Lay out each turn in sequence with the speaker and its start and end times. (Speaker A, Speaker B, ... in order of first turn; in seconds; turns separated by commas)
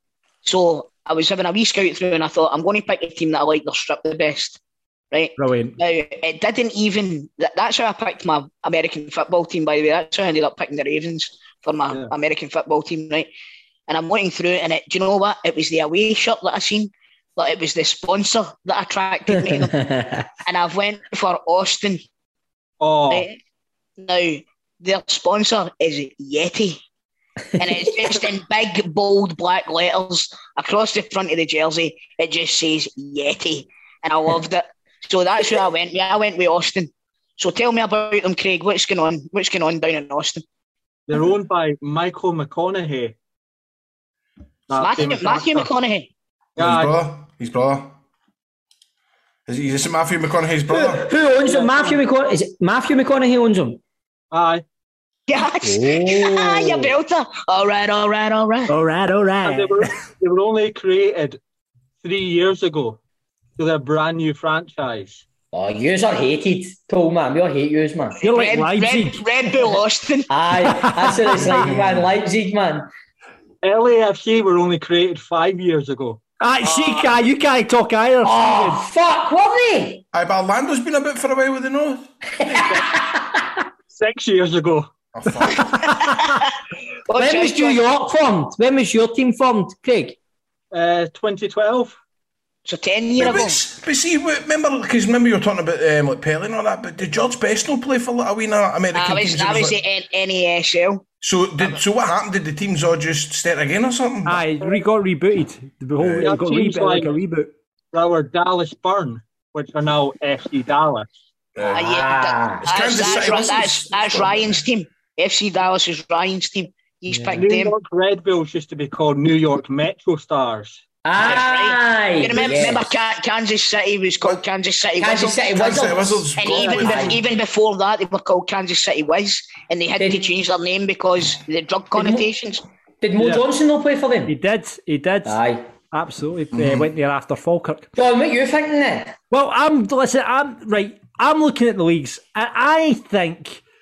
Speaker A: 0.4-4.6, Speaker A: 5.1-13.3, Speaker B: 5.4-5.8, Speaker A: 13.9-19.7, Speaker C: 19.3-20.3, Speaker A: 20.4-22.0, Speaker D: 22.8-23.3, Speaker A: 23.1-23.4, Speaker A: 24.0-26.8, Speaker A: 27.6-40.4, Speaker D: 41.1-43.1, Speaker D: 44.7-45.7, Speaker A: 44.8-46.1, Speaker D: 46.6-47.0, Speaker E: 46.6-48.0, Speaker E: 49.5-51.1, Speaker C: 50.7-53.8, Speaker D: 51.4-52.0, Speaker D: 54.3-54.6, Speaker A: 55.3-58.7, Speaker C: 55.6-56.9, Speaker B: 58.7-59.9, Speaker D: 59.4-61.4, Speaker D: 62.0-63.0, Speaker D: 63.6-65.2, Speaker C: 65.5-68.2, Speaker A: 68.2-70.3, Speaker B: 68.2-69.2, Speaker C: 70.3-72.9, Speaker B: 70.6-71.5, Speaker E: 71.5-72.1, Speaker D: 73.6-76.2, Speaker B: 76.4-78.8, Speaker A: 76.7-77.0, Speaker C: 78.2-80.0, Speaker E: 80.1-82.5, Speaker C: 82.4-83.6, Speaker D: 83.9-84.9, Speaker E: 85.1-85.9, Speaker B: 85.6-86.4, Speaker A: 85.9-86.5, Speaker A: 87.1-87.8, Speaker C: 87.2-90.2, Speaker D: 90.7-92.0, Speaker A: 92.7-93.6, Speaker E: 93.2-99.8, Speaker A: 98.9-101.0, Speaker E: 101.2-104.4, Speaker B: 104.2-107.5, Speaker E: 106.0-106.3, Speaker D: 106.2-107.2, Speaker D: 107.9-111.1, Speaker E: 111.5-111.9, Speaker C: 111.7-112.6, Speaker A: 111.7-117.7, Speaker E: 112.6-114.6, Speaker C: 117.1-117.4, Speaker D: 117.3-120.8, Speaker C: 121.0-122.9, Speaker A: 121.2-125.6, Speaker C: 125.0-127.2, Speaker E: 125.5-127.2, Speaker A: 126.4-132.6, Speaker C: 130.0-130.3, Speaker C: 131.9-132.2, Speaker C: 133.0-134.3, Speaker D: 133.2-133.4, Speaker B: 134.3-135.4, Speaker C: 135.2-135.7, Speaker B: 135.9-137.9, Speaker E: 136.5-136.8, Speaker C: 137.9-139.1, Speaker B: 139.3-143.6